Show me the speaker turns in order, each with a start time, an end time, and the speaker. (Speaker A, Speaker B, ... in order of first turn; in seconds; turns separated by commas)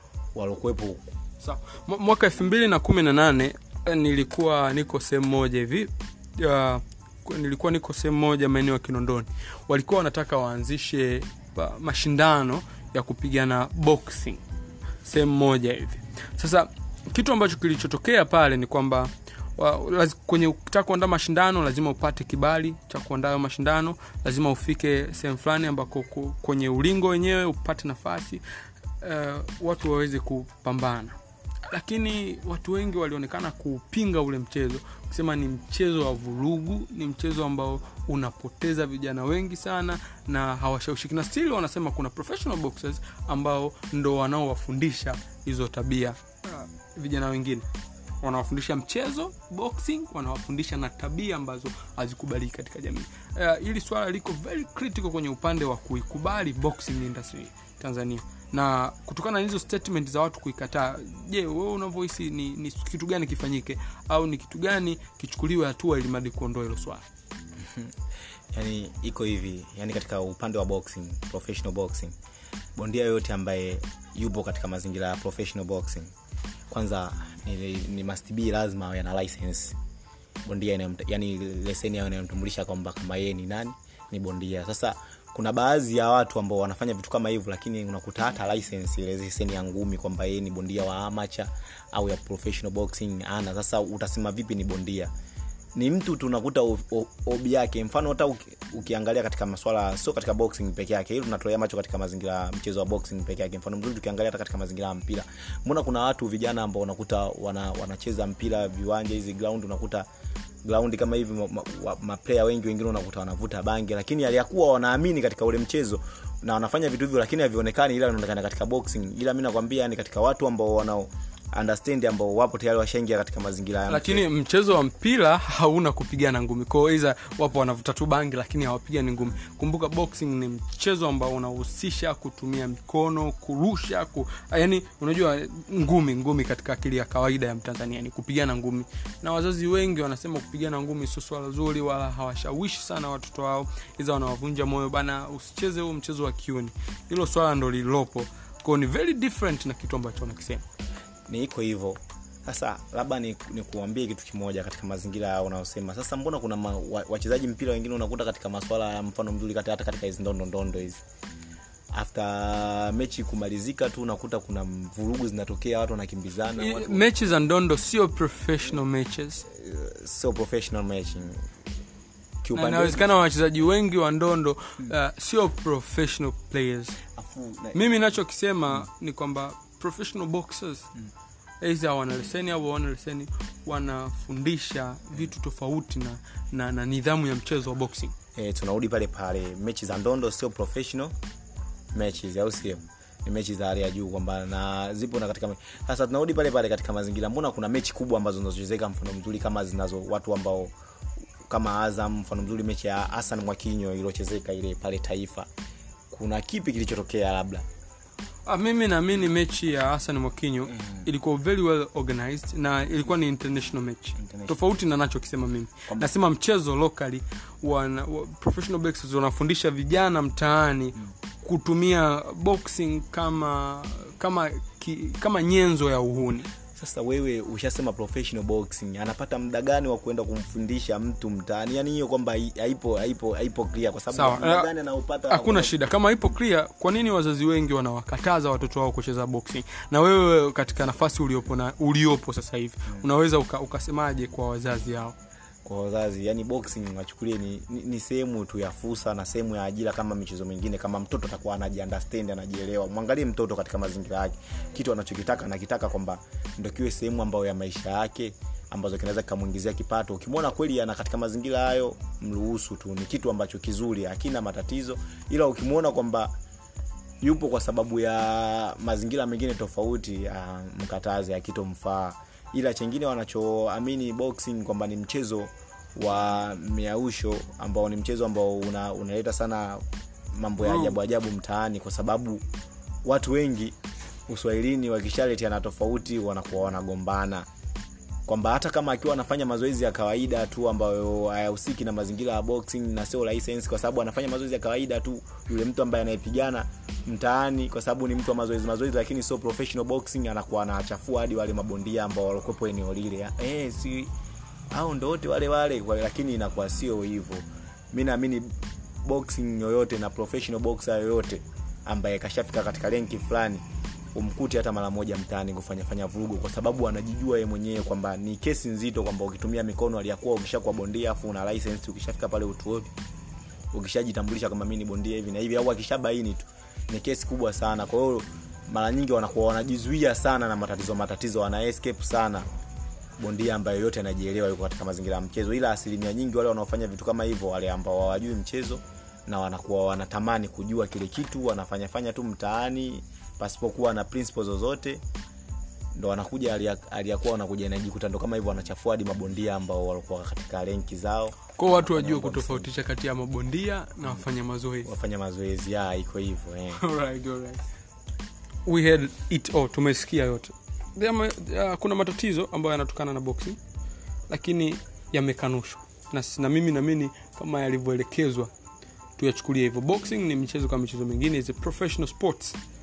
Speaker A: 0.3-1.1, Speaker B: 1.4-14.4, Speaker B: 15.0-28.4, Speaker B: 29.0-47.7, Speaker B: 48.2-67.0, Speaker A: 67.6-68.0, Speaker A: 68.5-72.2, Speaker A: 72.8-76.1, Speaker A: 76.7-79.8, Speaker A: 80.5-95.1, Speaker A: 95.8-110.1, Speaker A: 110.7-124.3, Speaker B: 123.9-150.7, Speaker A: 151.3-161.0, Speaker A: 161.9-167.0, Speaker B: 166.6-169.5, Speaker A: 169.5-171.4, Speaker A: 172.4-173.1, Speaker B: 172.5-177.0, Speaker A: 177.2-177.9, Speaker B: 177.7-180.9, Speaker B: 181.6-188.2, Speaker A: 188.3-191.1, Speaker A: 191.9-200.7, Speaker A: 201.5-205.5, Speaker A: 206.1-207.7, Speaker B: 208.5-226.5, Speaker A: 214.2-214.6, Speaker A: 226.8-235.8, Speaker B: 234.1-234.7, Speaker B: 235.3-245.2, Speaker A: 245.7-266.3, Speaker A: 267.2-282.4, Speaker B: 280.6-281.0, Speaker A: 283.1-283.8, Speaker A: 284.3-287.5, Speaker A: 288.3-304.1, Speaker A: 304.7-322.9, Speaker A: 323.7-332.5, Speaker A: 333.2-345.0, Speaker A: 345.9-352.7, Speaker B: 351.6-354.9, Speaker A: 354.9-356.8, Speaker B: 356.8-357.6, Speaker B: 358.7-363.6, Speaker B: 364.3-368.5, Speaker B: 369.2-372.6